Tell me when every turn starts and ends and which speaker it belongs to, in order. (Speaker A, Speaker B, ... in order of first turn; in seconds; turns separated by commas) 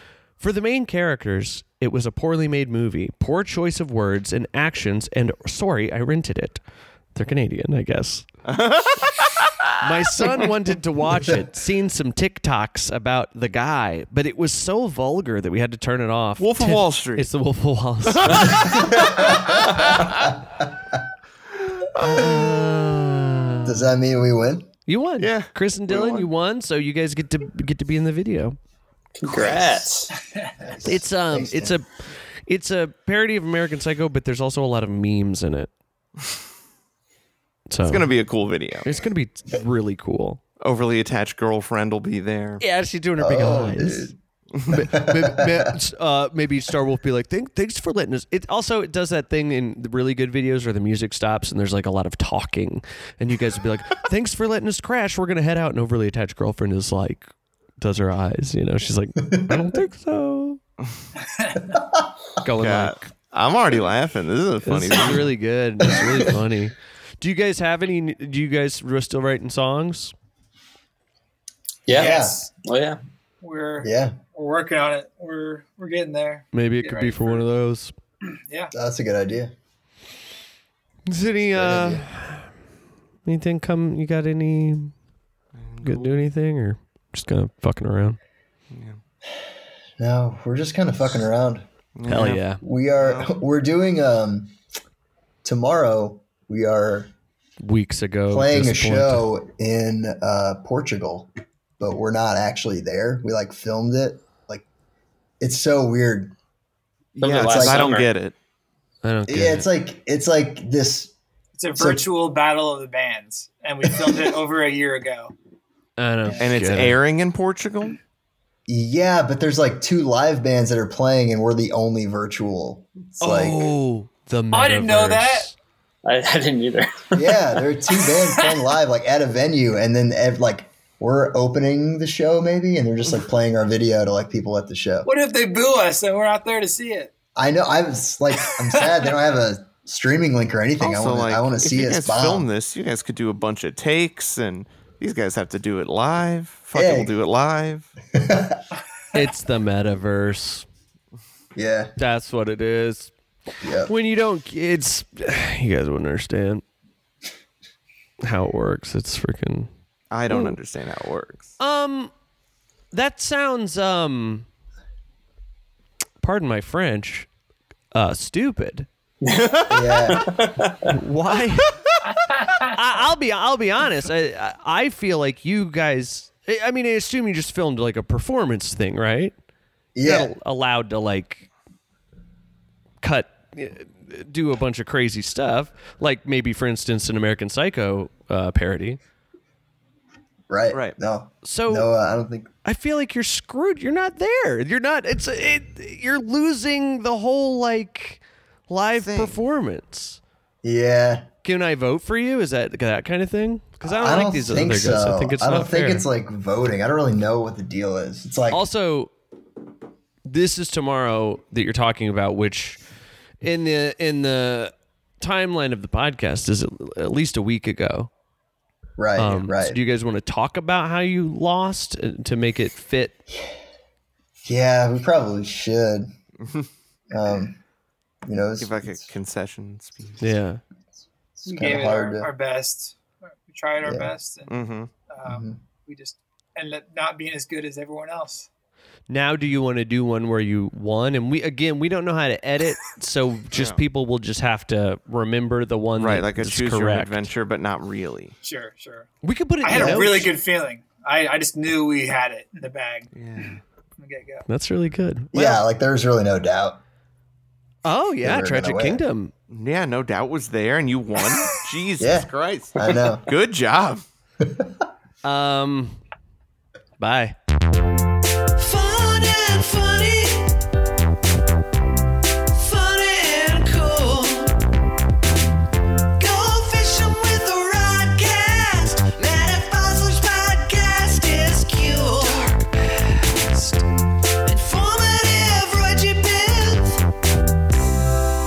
Speaker A: 0.4-6.6, Speaker A: 7.2-8.3, Speaker B: 8.5-10.3, Speaker A: 9.8-19.2, Speaker B: 16.4-17.3, Speaker B: 18.1-20.4, Speaker C: 18.7-19.6, Speaker B: 21.8-22.5, Speaker A: 22.0-23.9, Speaker C: 23.6-24.7, Speaker A: 24.9-28.6, Speaker B: 25.2-26.3, Speaker D: 29.2-30.1, Speaker C: 30.6-31.8, Speaker A: 30.8-31.9, Speaker A: 32.5-35.7, Speaker A: 37.7-38.1, Speaker B: 37.9-38.9, Speaker A: 38.8-40.4, Speaker B: 40.6-42.6, Speaker A: 42.6-44.1, Speaker C: 43.2-44.1, Speaker C: 44.7-45.7, Speaker A: 44.7-60.6, Speaker C: 59.2-59.7, Speaker E: 61.3-61.8, Speaker A: 62.4-63.1, Speaker B: 62.5-65.3, Speaker A: 64.6-70.1, Speaker C: 65.8-66.3, Speaker D: 71.9-73.0, Speaker C: 71.9-72.4, Speaker E: 71.9-72.5, Speaker E: 73.4-77.5, Speaker C: 73.8-74.2, Speaker A: 76.5-78.0, Speaker E: 78.3-78.7, Speaker C: 78.7-79.5, Speaker A: 81.1-82.5, Speaker C: 81.5-82.1, Speaker A: 83.3-84.9, Speaker B: 85.6-86.3, Speaker A: 85.8-88.2, Speaker B: 88.7-89.0, Speaker C: 90.0-91.7, Speaker B: 92.0-92.4, Speaker A: 92.1-92.6, Speaker C: 92.6-94.5, Speaker B: 93.0-93.3, Speaker C: 95.4-97.1, Speaker A: 97.6-99.3, Speaker C: 98.3-104.7, Speaker C: 105.4-106.3, Speaker D: 107.2-108.1, Speaker B: 107.2-108.3, Speaker C: 107.3-107.9, Speaker A: 109.0-109.7, Speaker C: 109.3-111.2, Speaker E: 111.6-115.3, Speaker C: 111.8-112.1, Speaker A: 116.0-117.0, Speaker B: 116.4-118.0, Speaker C: 118.7-123.7, Speaker A: 123.2-125.5, Speaker E: 124.5-125.5, Speaker D: 126.0-127.5, Speaker C: 127.1-135.1, Speaker E: 135.1-137.1, Speaker C: 137.4-142.5, Speaker B: 140.8-147.9, Speaker C: 146.7-147.2, Speaker C: 148.1-148.6, Speaker A: 149.1-150.7, Speaker C: 151.6-151.9, Speaker A: 152.0-153.1, Speaker C: 153.6-153.9, Speaker A: 153.9-156.6, Speaker A: 158.2-159.7, Speaker B: 160.1-161.6, Speaker A: 160.3-160.6, Speaker A: 161.6-162.1, Speaker A: 162.9-164.5, Speaker A: 166.2-167.3, Speaker A: 167.9-168.9, Speaker D: 169.2-170.9, Speaker B: 169.4-169.7, Speaker C: 169.7-170.3, Speaker A: 170.8-171.8, Speaker A: 172.6-179.3, Speaker C: 179.9-180.3, Speaker A: 180.0-181.5, Speaker A: 183.0-189.0, Speaker C: 190.5-192.5, Speaker B: 190.7-191.0, Speaker A: 191.4-191.9, Speaker A: 192.6-200.2, Speaker B: 198.9-199.4, Speaker C: 200.6-201.3, Speaker A: 201.4-206.1, Speaker C: 203.8-208.6, Speaker A: 208.5-209.1, Speaker A: 210.3-212.8, Speaker A: 213.4-218.1, Speaker C: 219.0-219.8, Speaker A: 219.2-223.2, Speaker C: 224.4-226.1, Speaker B: 226.4-226.7, Speaker C: 227.1-227.6, Speaker C: 228.3-229.1, Speaker B: 228.6-230.3, Speaker A: 230.2-230.6, Speaker C: 231.4-232.3, Speaker E: 231.4-238.5, Speaker C: 233.8-234.1, Speaker B: 234.5-234.9, Speaker C: 235.2-235.6, Speaker A: 239.1-247.3, Speaker B: 243.5-243.8, Speaker B: 246.0-248.3, Speaker E: 248.4-249.1, Speaker A: 249.2-250.3, Speaker E: 249.6-253.1, Speaker C: 249.7-250.1, Speaker B: 253.2-253.6, Speaker E: 254.0-254.5, Speaker A: 254.5-255.6, Speaker C: 255.3-256.8, Speaker A: 257.9-259.3, Speaker C: 258.2-259.0, Speaker B: 259.5-264.1, Speaker C: 262.0-263.2, Speaker C: 264.4-264.8, Speaker A: 265.2-266.0, Speaker A: 267.0-267.4, Speaker A: 268.6-270.6, Speaker A: 272.5-274.6, Speaker A: 276.2-283.9, Speaker A: 284.4-287.0